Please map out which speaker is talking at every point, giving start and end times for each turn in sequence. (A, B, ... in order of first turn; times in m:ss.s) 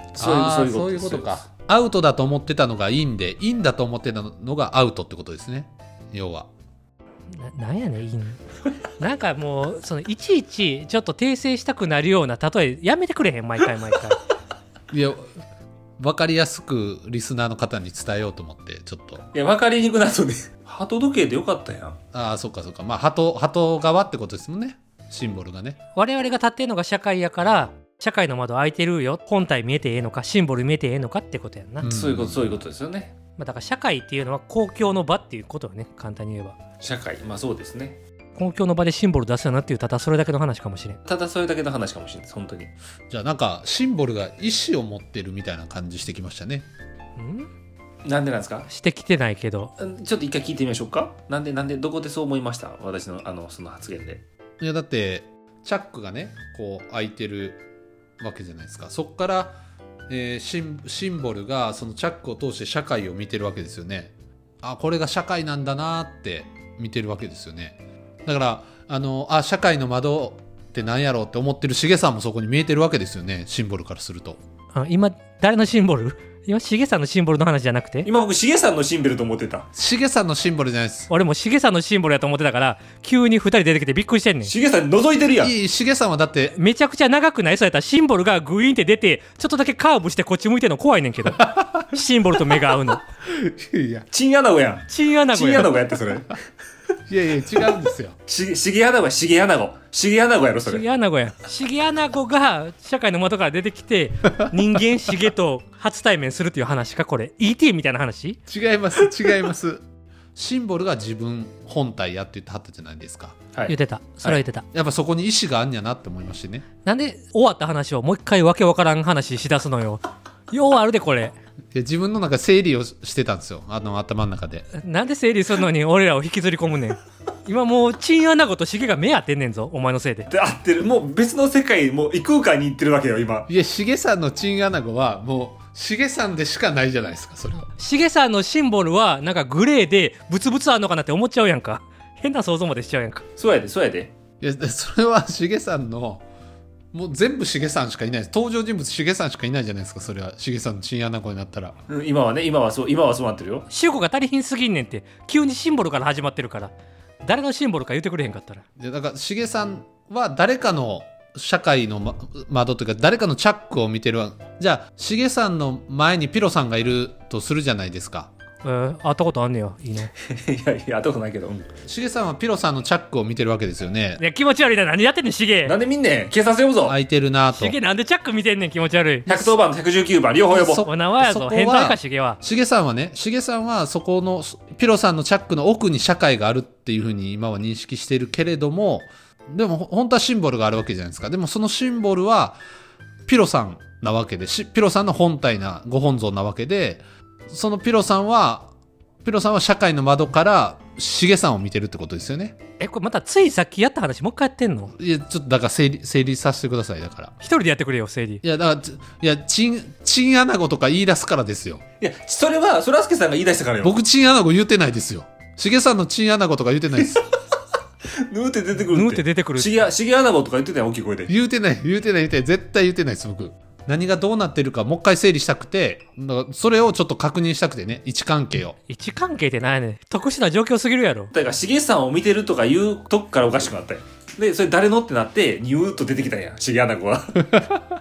0:00.2-0:01.5 A
0:00.2-0:06.5 B
0:07.3-0:08.4 C
0:09.0-0:14.2 C
0:14.9-0:15.3 B
0:16.0-0:19.2 B
0:19.3-0:22.0 A
0:22.1-0:25.8 B
0:26.0-0:31.9 C
0:31.8-0:32.6 B
0:31.8-0:33.2 A
0:33.4-0:36.6 C
0:36.8-0:38.0 A
0:38.4-0:41.0 C
0:41.1-0:42.7 A
0:43.1-0:46.7 B
0:47.2-0:47.5 C
0:48.0-0:48.7 A
0:48.7-0:49.7 C
0:49.8-0:54.2 A
0:54.6-0:57.6 B
0:58.2-0:59.6 B
1:00.1-1:14.4 B
1:14.8-1:18.1 C
1:18.0-1:19.7 A
1:19.7-1:21.1 B
1:21.1-1:24.5 C
1:24.4-1:25.5 A
1:25.4-1:26.6 B
1:26.6-1:33.0 C
1:31.3-1:31.9 B
1:32.5-1:34.1 B
1:34.1-1:36.3 A
1:34.9-1:35.7 C
1:37.1-1:38.2 B
1:38.3-1:40.8 A
1:40.7-1:48.4 C
1:48.5-1:49.8 B
1:50.4-1:53.4 B
1:53.5-1:54.4 A
1:53.7-1:54.6 C
1:54.7-1:56.7 B
1:56.8-2:01.3 C
2:01.7-2:04.7 B
2:04.7-2:10.3 C
2:10.3-2:13.5 A
2:13.5-2:17.7 B
2:17.7-2:23.2 C
2:23.4-2:24.1 A
2:24.4-2:26.2 B
2:26.9-2:31.8 B
2:31.9-2:33.7 A
2:33.7-2:38.6 C
2:38.8-2:48.3 B
2:48.6-2:50.1 C
2:50.3-2:51.7 A
2:51.8-2:54.2 B
2:54.2-2:55.8 C
2:55.7-2:57.0 A
2:56.8-2:57.8 B
2:57.5-2:59.5 C
2:59.3-3:00.9 A
3:00.5-3:12.6 B
3:00.8-3:02.4 C
3:13.3-3:18.7 B
3:19.2-3:22.6 B
3:22.8-3:24.9 C
3:24.9-3:27.3 B
3:27.4-3:28.4 C
3:28.4-3:31.8 B
3:32.0-3:34.0 A
3:33.8-3:37.3 B
3:38.3-3:41.3 A
3:38.8-3:39.8 C
3:41.3-3:48.8 B
3:48.9-3:51.3 C
3:51.3-3:57.6 A